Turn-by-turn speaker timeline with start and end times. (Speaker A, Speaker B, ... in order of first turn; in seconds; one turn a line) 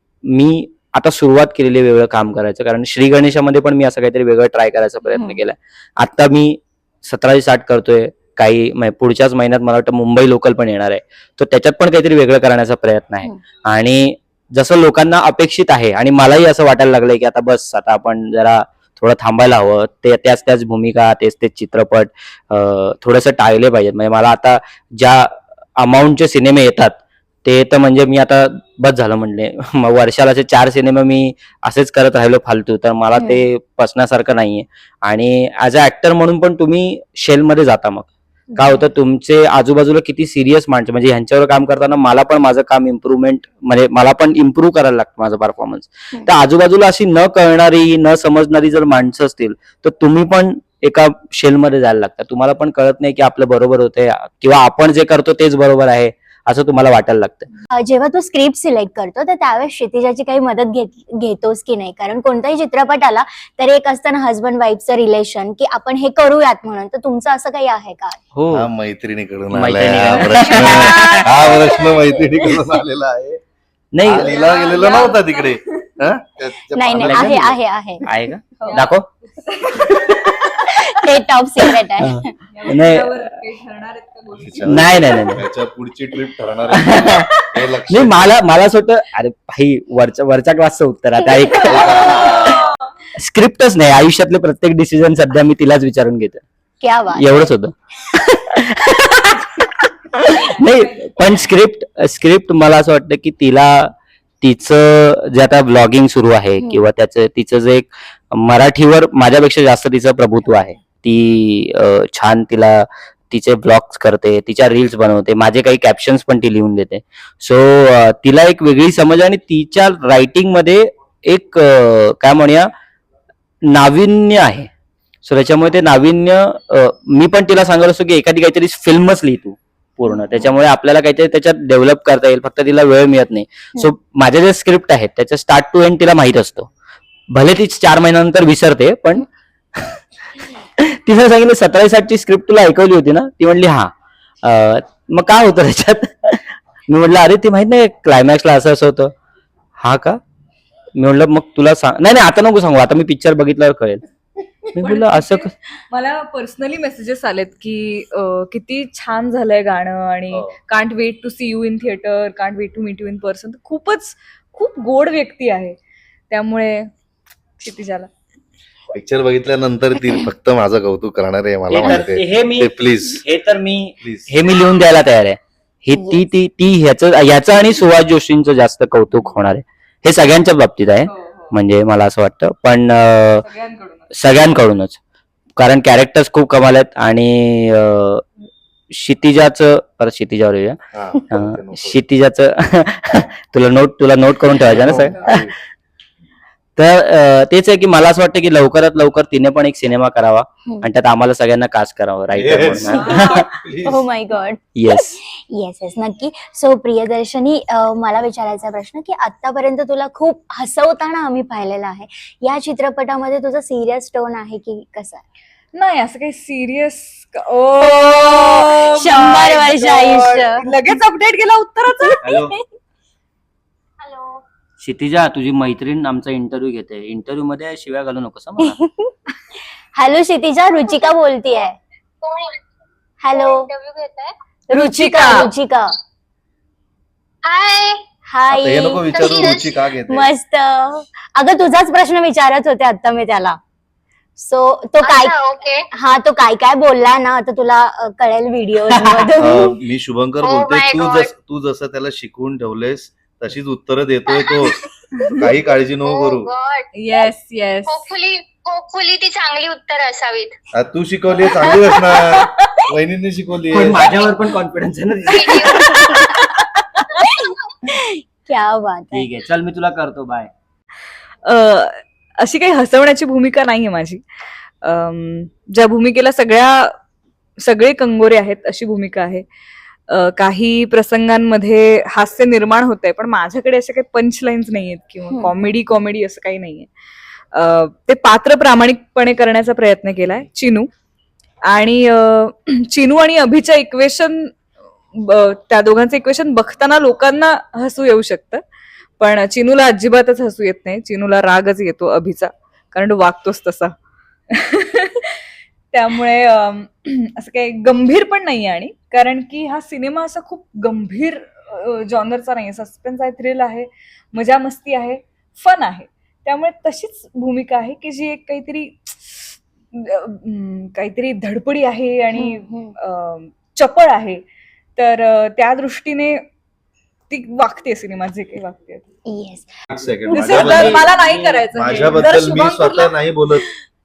Speaker A: 0.3-57.5
Speaker B: 5.0-5.4
Speaker B: 33.1-33.4
Speaker B: 38.5-38.8
Speaker B: 57.7-68.2
Speaker A: 68.3-68.7
Speaker C: 68.5-73.4
Speaker A: 69.5-71.2
Speaker D: 70.2-72.1
Speaker B: 71.2-72.6
Speaker A: 73.9-74.3
Speaker C: 74.0-77.4
Speaker D: 74.2-75.9
Speaker B: 76.7-78.0
Speaker A: 76.9-79.0
Speaker D: 78.6-80.6
Speaker A: 80.0-80.3
Speaker B: 80.6-82.3
Speaker A: 82.0-83.1
Speaker D: 82.5-85.4
Speaker C: 84.4-88.3
Speaker A: 84.7-85.4
Speaker A: 86.7-87.3
Speaker A: 87.9-92.6
Speaker B: 91.2-92.4
Speaker C: 91.7-92.1
Speaker D: 91.8-92.8
Speaker A: 93.2-96.4
Speaker B: 96.8-97.5
Speaker A: 97.1-122.7
Speaker D: 100.3-101.2
Speaker A: 123.7-124.7
Speaker A: 125.2-136.7
Speaker B: 130.1-130.5
Speaker A: 137.3-139.2
Speaker A: 140.8-149.1
Speaker A: 149.8-150.2
Speaker A: 150.9-154.0
Speaker A: 154.7-155.5
Speaker D: 154.7-165.8
Speaker C: 160.3-160.6
Speaker D: 166.3-166.9
Speaker D: 167.6-168.1
Speaker C: 168.9-173.2
Speaker A: 171.7-183.4
Speaker C: 174.0-174.3
Speaker B: 175.9-176.2
Speaker D: 181.1-181.5
Speaker D: 183.4-184.1
Speaker A: 184.1-185.0
Speaker A: 185.6-188.2
Speaker A: 188.9-190.8
Speaker C: 190.9-192.0
Speaker A: 191.3-195.4
Speaker C: 194.7-195.5
Speaker A: 196.8-203.4
Speaker C: 202.3-204.0
Speaker D: 202.9-203.5
Speaker B: 203.8-215.2
Speaker A: 204.8-205.2
Speaker D: 215.7-222.2
Speaker B: 217.8-220.7
Speaker B: 222.0-222.5
Speaker A: 222.2-222.6
Speaker E: 224.0-224.4
Speaker A: 224.8-228.8
Speaker B: 228.7-229.1
Speaker B: 229.9-231.8
Speaker E: 232.2-232.6
Speaker B: 233.2-233.7
Speaker E: 233.3-234.3
Speaker B: 234.7-235.9
Speaker D: 234.7-235.5
Speaker E: 237.4-238.0
Speaker B: 238.3-239.5
Speaker C: 238.5-240.3
Speaker E: 239.1-239.7
Speaker B: 240.1-243.6
Speaker B: 244.4-245.4
Speaker E: 245.0-245.9
Speaker B: 245.9-249.8
Speaker A: 248.9-249.3
Speaker C: 249.3-254.8
Speaker E: 250.4-251.3
Speaker C: 255.3-256.5
Speaker E: 256.1-256.9
Speaker D: 256.9-258.1
Speaker E: 257.9-260.5
Speaker C: 260.7-264.1
Speaker D: 261.6-262.7
Speaker A: 263.7-266.2
Speaker E: 265.3-265.9
Speaker D: 265.9-266.5
Speaker B: 267.2-269.3
Speaker A: 269.1-270.5
Speaker D: 271.4-274.2
Speaker D: 274.8-276.9
Speaker D: 277.6-279.4
Speaker D: 280.1-286.9
Speaker D: 287.5-290.9
Speaker D: 291.7-294.5
Speaker D: 295.1-298.6
Speaker D: 299.2-303.9
Speaker D: 304.5-324.4
Speaker B: 322.3-322.9
Speaker D: 325.0-326.4
Speaker D: 327.3-329.0
Speaker B: 329.2-329.7
Speaker C: 329.9-331.1
Speaker A: 330.3-332.3
Speaker D: 330.3-333.1
Speaker C: 331.7-333.6